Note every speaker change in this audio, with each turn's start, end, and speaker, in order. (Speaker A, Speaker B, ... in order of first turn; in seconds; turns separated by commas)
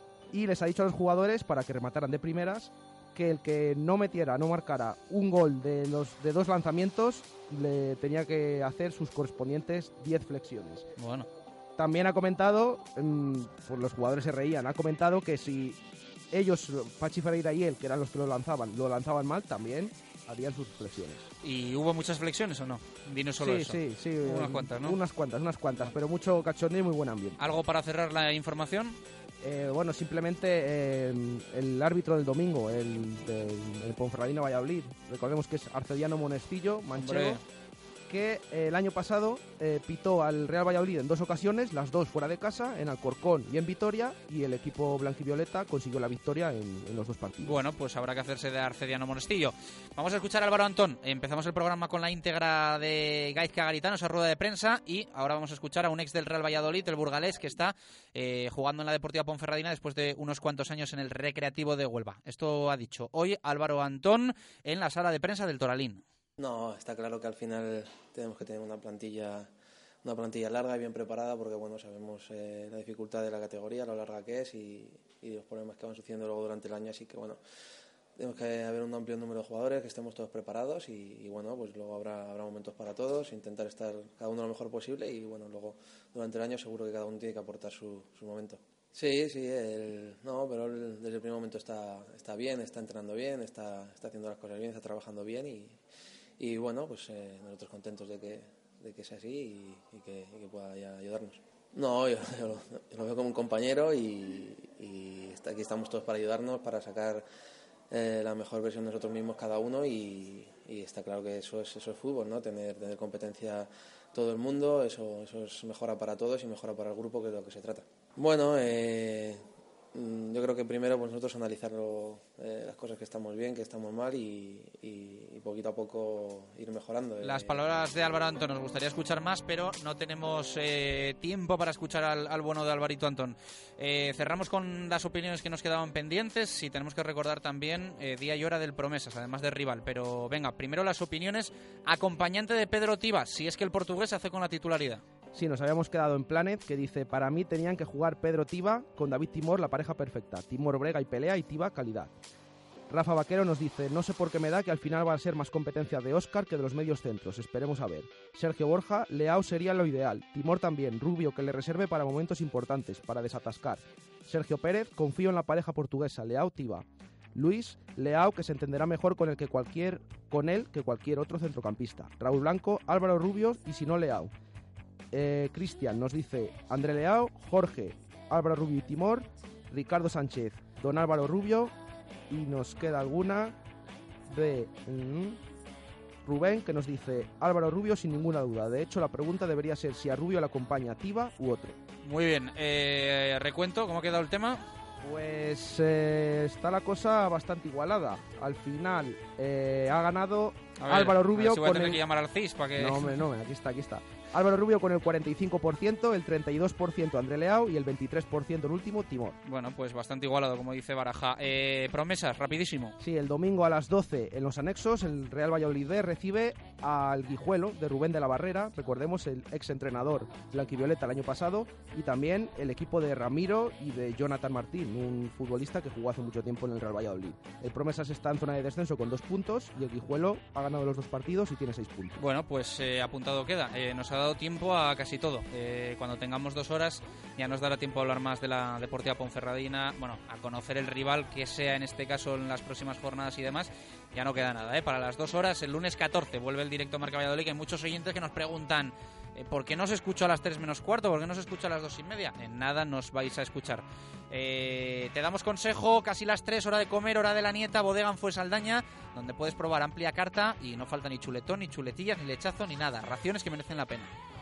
Speaker A: 0.3-10.8, Speaker B: 11.0-11.3, Speaker A: 11.8-15.8, Speaker A: 16.3-21.3, Speaker B: 21.4-25.0, Speaker A: 23.4-27.4, Speaker B: 27.4-29.0, Speaker A: 29.4-37.4, Speaker B: 37.0-37.4, Speaker A: 38.1-47.6, Speaker B: 47.4-66.0, Speaker C: 66.4-69.5, Speaker C: 70.0-77.4, Speaker C: 78.2-95.8, Speaker C: 96.4-107.2, Speaker C: 107.9-119.4, Speaker C: 119.9-127.6, Speaker B: 127.2-145.0, Speaker A: 145.3-152.1, Speaker A: 152.9-174.3, Speaker A: 175.1-181.7, Speaker A: 182.3-183.6, Speaker A: 184.3-185.4, Speaker A: 186.2-191.8, Speaker B: 192.0-194.6, Speaker A: 195.0-202.0, Speaker B: 200.8-203.2, Speaker A: 202.8-209.4, Speaker B: 209.4-213.0, Speaker A: 213.0-232.2, Speaker B: 232.2-264.1